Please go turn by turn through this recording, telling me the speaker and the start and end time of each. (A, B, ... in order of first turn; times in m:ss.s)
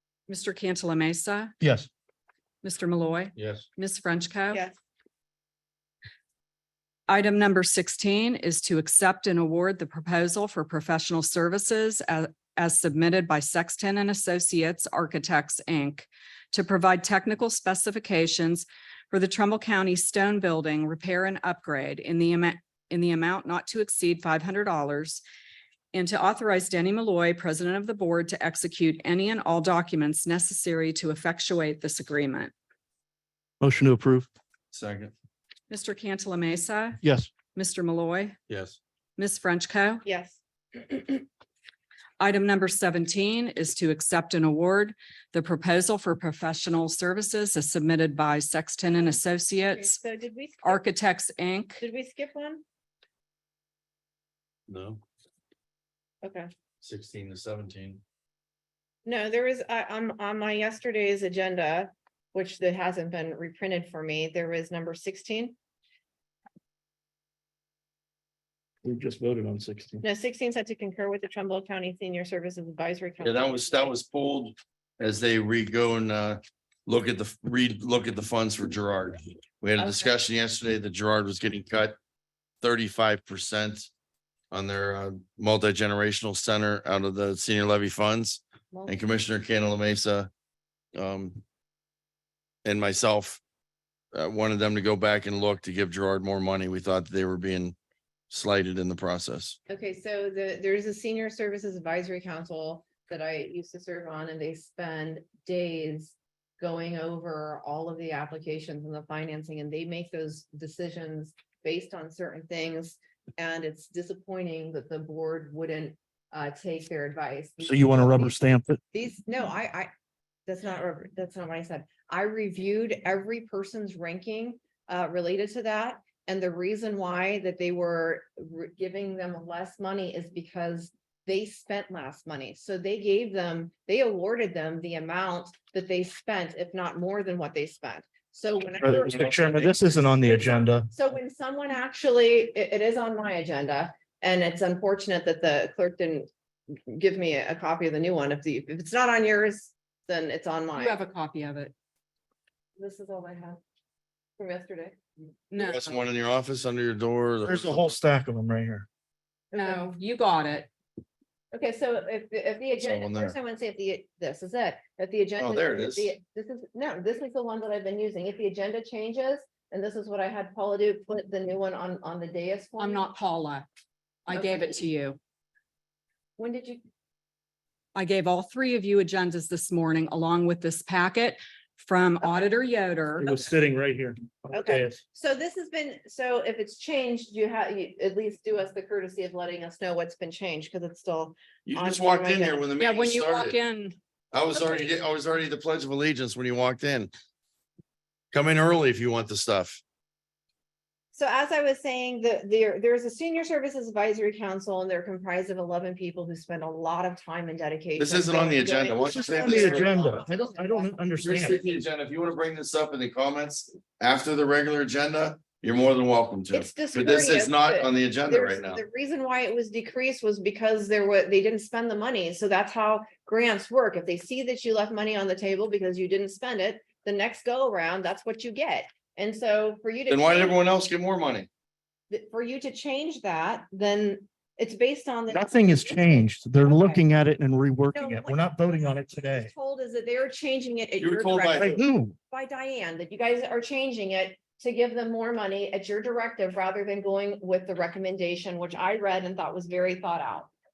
0:00.3-0:01.5 A
0:01.6-0:01.9 B
0:02.6-0:04.6 A
0:03.3-0:03.7 C
0:07.1-0:25.2 A
0:25.9-0:32.5 A
0:33.6-0:34.3 B
0:34.7-0:35.1 C
0:35.7-0:37.0 A
0:37.0-0:37.3 B
0:37.5-0:38.4 A
0:38.5-0:38.8 C
0:39.2-0:40.0 A
0:40.0-0:41.2 D
0:42.2-0:50.0 A
0:49.0-0:50.8 D
0:50.6-0:51.8 A
0:51.8-0:52.6 D
0:54.7-0:55.0 C
0:56.2-0:56.5 D
0:56.8-0:58.0 C
0:59.0-1:05.5 D
1:08.8-1:10.0 B
1:10.0-1:13.9 D
1:13.2-1:22.0 C
1:19.8-1:20.1 D
1:22.6-1:23.9 C
1:24.5-1:30.3 C
1:28.7-1:29.0 D
1:30.9-1:31.4 C
1:32.6-1:33.4 C
1:34.1-1:37.8 C
1:38.3-1:39.6 C
1:39.7-1:58.4 D
1:57.6-1:58.8 B
1:58.9-1:59.9 D
2:00.5-2:31.0 D
2:18.8-2:20.9 B
2:30.7-2:31.7 A
2:32.8-2:33.6 D
2:34.4-2:35.0 D
2:35.5-2:36.0 A
2:35.6-2:38.0 C
2:37.4-2:38.9 B
2:39.5-2:39.8 D
2:39.5-2:40.7 A
2:41.5-2:53.0 D
2:42.8-2:43.3 C
2:45.4-2:46.1 C
2:52.8-2:53.7 A
2:54.3-2:55.2 A
2:54.3-2:54.8 D
2:56.4-2:56.8 D
2:57.9-3:03.5 A
3:03.2-3:05.0 B
3:04.5-3:12.7 D
3:11.6-3:13.6 C
3:12.8-3:14.0 A
3:14.3-3:17.1 C
3:18.3-3:19.8 C
3:21.1-3:31.7 D
3:28.0-3:30.2 C
3:29.0-3:31.6 B
3:31.2-3:38.8 C
3:36.5-3:50.6 D
3:50.1-3:51.5 C
3:52.1-3:57.0 D
3:55.3-3:59.5 B
3:57.9-3:58.4 D
3:59.3-4:10.5 D
4:01.0-4:01.7 C
4:01.6-4:02.1 B